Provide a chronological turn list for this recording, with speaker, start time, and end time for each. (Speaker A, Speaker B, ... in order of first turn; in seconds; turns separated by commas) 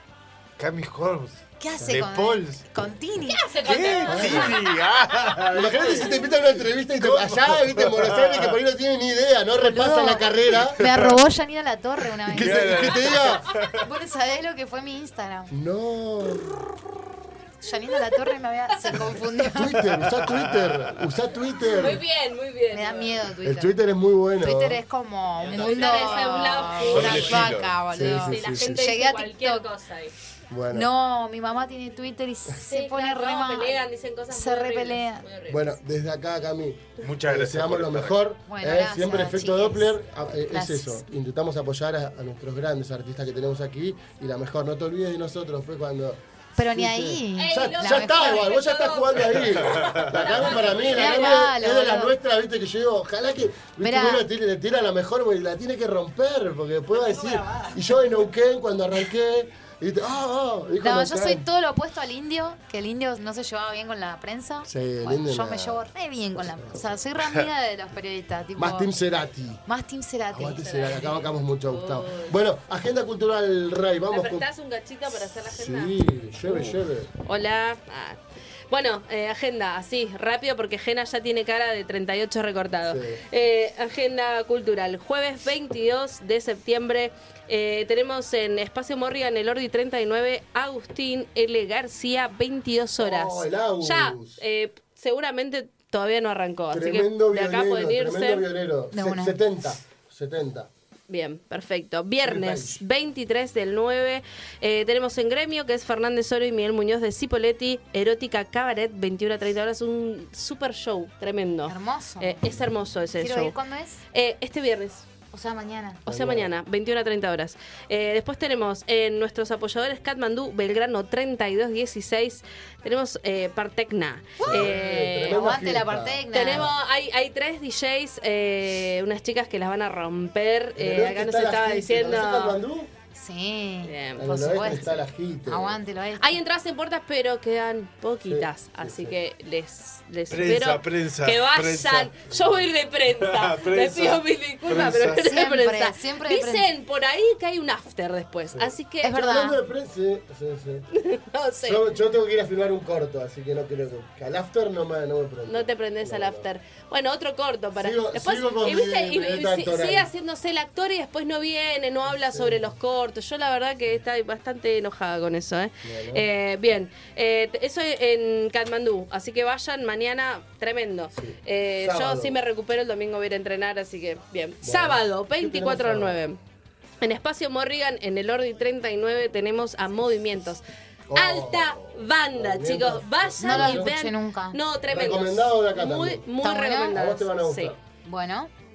Speaker A: 0.6-2.6, Speaker B: 1.6-4.4, Speaker C: 3.4-4.6, Speaker A: 3.6-6.3, Speaker D: 4.1-4.6, Speaker D: 5.4-11.1, Speaker A: 7.0-8.6, Speaker B: 9.6-12.9, Speaker A: 10.8-11.1, Speaker D: 12.3-13.5, Speaker A: 12.3-13.9, Speaker B: 13.7-15.5, Speaker D: 15.5-16.6, Speaker B: 17.6-20.0, Speaker D: 19.5-22.0, Speaker A: 20.0-21.1, Speaker C: 21.8-23.1, Speaker B: 22.7-23.8, Speaker D: 23.4-24.8, Speaker B: 24.4-29.7, Speaker A: 25.4-26.3, Speaker C: 25.6-27.5, Speaker A: 26.9-27.8, Speaker D: 27.9-28.9, Speaker C: 28.2-30.1, Speaker D: 30.5-30.9, Speaker B: 30.7-35.2, Speaker C: 32.6-35.7, Speaker D: 35.5-61.5, Speaker A: 37.0-38.3, Speaker B: 38.5-41.0, Speaker B: 46.6-48.4, Speaker C: 47.4-51.3, Speaker A: 49.6-50.1, Speaker B: 50.9-52.1, Speaker B: 53.8-54.3, Speaker C: 56.9-57.8, Speaker B: 60.8-68.9, Speaker D: 64.7-65.8, Speaker D: 66.4-66.8, Speaker D: 68.6-69.6, Speaker B: 69.7-70.8, Speaker D: 70.3-74.5, Speaker C: 70.6-72.4, Speaker C: 74.1-98.5, Speaker D: 75.5-77.1, Speaker D: 82.9-83.2, Speaker D: 93.0-94.4, Speaker D: 96.7-100.7, Speaker B: 98.9-99.4, Speaker C: 101.1-113.6, Speaker D: 102.2-102.8, Speaker B: 111.7-112.5, Speaker B: 113.2-114.0, Speaker C: 114.1-115.0, Speaker B: 115.3-116.0, Speaker C: 116.1-125.4, Speaker D: 116.1-116.5, Speaker B: 124.4-124.7, Speaker D: 124.4-126.7, Speaker B: 125.3-126.7, Speaker C: 126.3-132.6, Speaker D: 130.8-132.9, Speaker B: 133.1-136.4, Speaker C: 133.8-134.2, Speaker D: 134.2-135.8, Speaker C: 136.2-149.3, Speaker D: 138.3-139.1, Speaker A: 140.3-142.2, Speaker D: 142.3-142.7, Speaker A: 143.1-145.3, Speaker B: 145.1-146.7, Speaker D: 148.6-150.9, Speaker B: 149.0-149.6, Speaker C: 150.9-151.8, Speaker D: 151.6-156.4, Speaker C: 155.5-176.4, Speaker D: 157.8-160.1, Speaker D: 162.1-162.8, Speaker D: 165.8-166.2, Speaker D: 171.2-172.4, Speaker D: 174.6-176.2, Speaker C: 177.0-180.6, Speaker D: 181.1-183.9, Speaker C: 181.1-187.7, Speaker B: 183.4-184.6, Speaker D: 184.9-186.3, Speaker B: 186.4-187.0, Speaker D: 186.9-187.8, Speaker B: 188.0-188.5